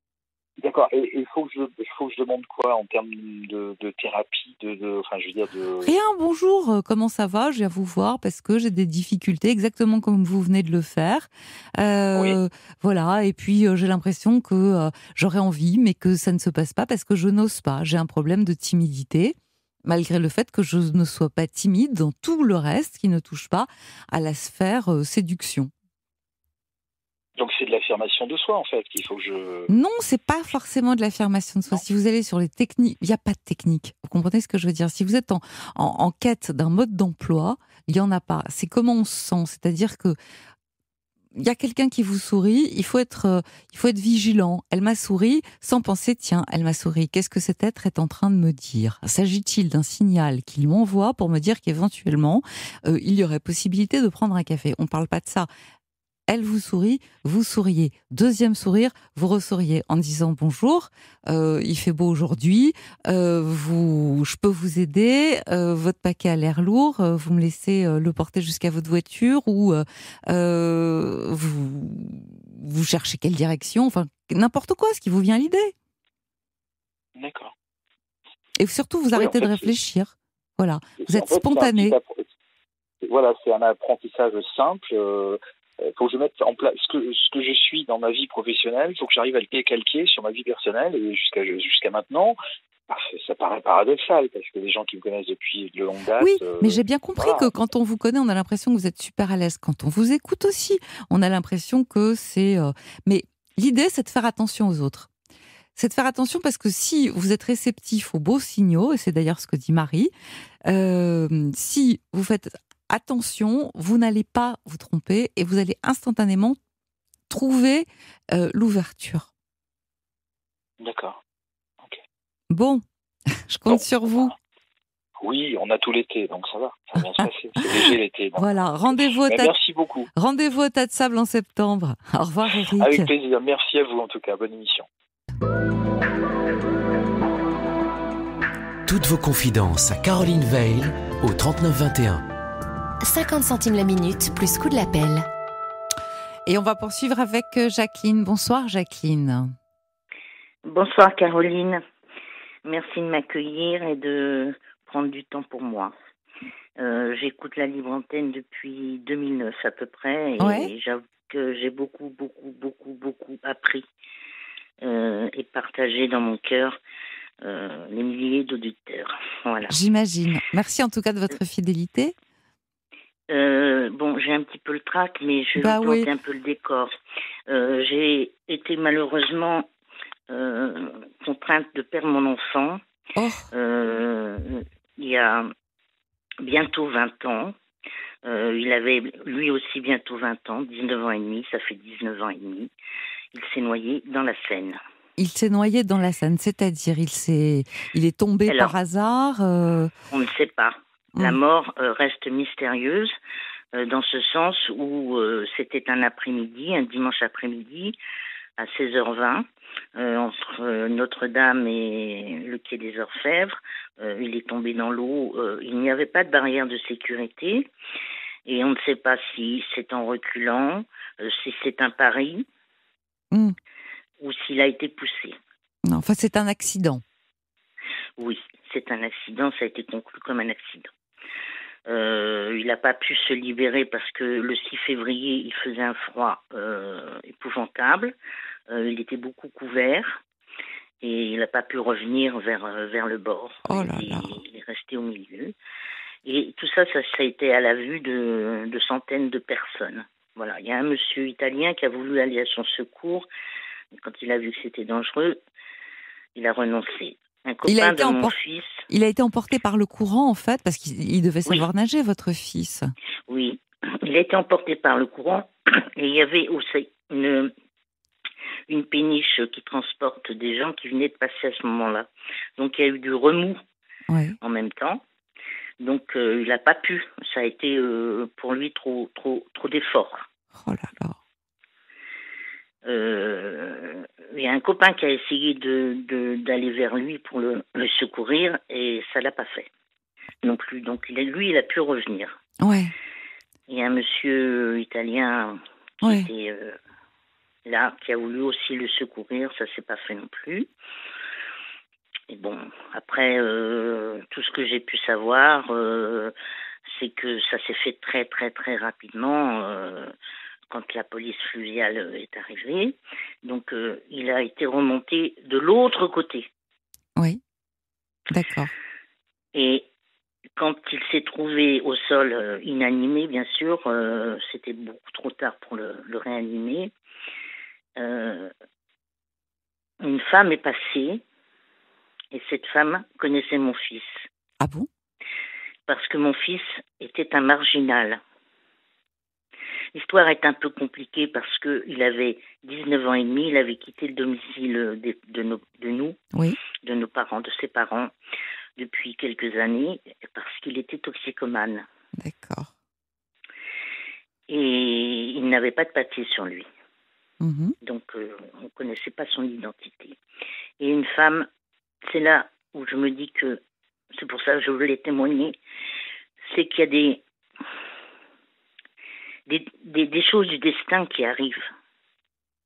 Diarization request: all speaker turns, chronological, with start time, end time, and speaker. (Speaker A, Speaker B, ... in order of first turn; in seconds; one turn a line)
Speaker A: 0.6-5.9
Speaker B: 5.8-19.3
Speaker B: 19.9-25.7
Speaker A: 27.4-29.7
Speaker B: 29.7-40.1
Speaker B: 41.4-55.5
Speaker B: 56.3-75.7
Speaker A: 77.2-77.5
Speaker B: 78.6-82.0
Speaker A: 79.1-79.7
Speaker A: 81.0-82.3
Speaker A: 83.0-92.4
Speaker A: 92.9-97.5
Speaker B: 96.2-105.1
Speaker B: 105.8-110.1
Speaker B: 110.7-116.6
Speaker B: 117.3-119.3
Speaker A: 120.8-121.2
Speaker B: 122.5-124.3
Speaker A: 123.7-124.3
Speaker A: 125.2-130.1
Speaker B: 128.3-129.5
Speaker B: 130.1-133.1
Speaker A: 132.8-134.9
Speaker C: 138.8-142.3
Speaker D: 143.0-145.3
Speaker B: 146.4-149.5
Speaker E: 150.6-151.8
Speaker E: 152.6-155.9
Speaker E: 156.8-163.8
Speaker B: 160.4-160.7
Speaker E: 164.8-166.8
Speaker E: 167.4-169.7
Speaker B: 169.7-172.1
Speaker E: 173.3-176.9
Speaker B: 175.6-176.1
Speaker E: 177.5-179.7
Speaker E: 180.3-182.8
Speaker B: 183.2-183.5
Speaker E: 183.5-185.5
Speaker E: 186.4-187.5
Speaker E: 188.2-192.7
Speaker E: 193.3-194.8
Speaker B: 195.2-199.9
Speaker E: 198.5-198.7
Speaker E: 200.1-203.1
Speaker E: 203.7-208.0
Speaker E: 208.6-209.4
Speaker E: 209.9-217.7
Speaker E: 218.4-222.4
Speaker E: 224.2-225.4
Speaker B: 225.8-227.0
Speaker E: 228.2-230.9
Speaker E: 231.9-238.2
Speaker E: 238.7-240.2
Speaker E: 241.0-245.5
Speaker B: 243.7-244.4
Speaker E: 246.2-253.3
Speaker E: 253.9-255.4
Speaker E: 256.4-258.8
Speaker B: 257.6-258.3
Speaker B: 258.9-262.9
Speaker E: 263.3-267.5
Speaker E: 268.7-273.6
Speaker B: 274.1-274.4
Speaker E: 274.4-275.0
Speaker E: 275.8-280.2
Speaker B: 280.6-281.2
Speaker E: 282.8-289.7
Speaker E: 290.4-292.4
Speaker B: 292.6-292.9
Speaker E: 293.7-296.8
Speaker B: 296.0-296.3
Speaker E: 297.6-300.7
Speaker E: 302.3-306.3
Speaker E: 306.9-310.1
Speaker E: 310.7-316.5
Speaker B: 318.3-318.7
Speaker E: 319.5-319.9
Speaker E: 320.6-326.9
Speaker E: 328.0-328.5
Speaker E: 330.0-331.2
Speaker E: 332.3-334.2
Speaker B: 334.6-334.9
Speaker E: 335.9-338.2
Speaker E: 339.9-346.2
Speaker E: 346.8-348.1
Speaker E: 348.8-351.9
Speaker B: 352.2-352.7
Speaker E: 354.5-356.7
Speaker B: 357.4-357.7
Speaker E: 357.8-360.2
Speaker E: 360.8-361.5
Speaker E: 362.1-363.6
Speaker E: 364.1-365.6
Speaker E: 366.5-367.2
Speaker E: 369.5-371.6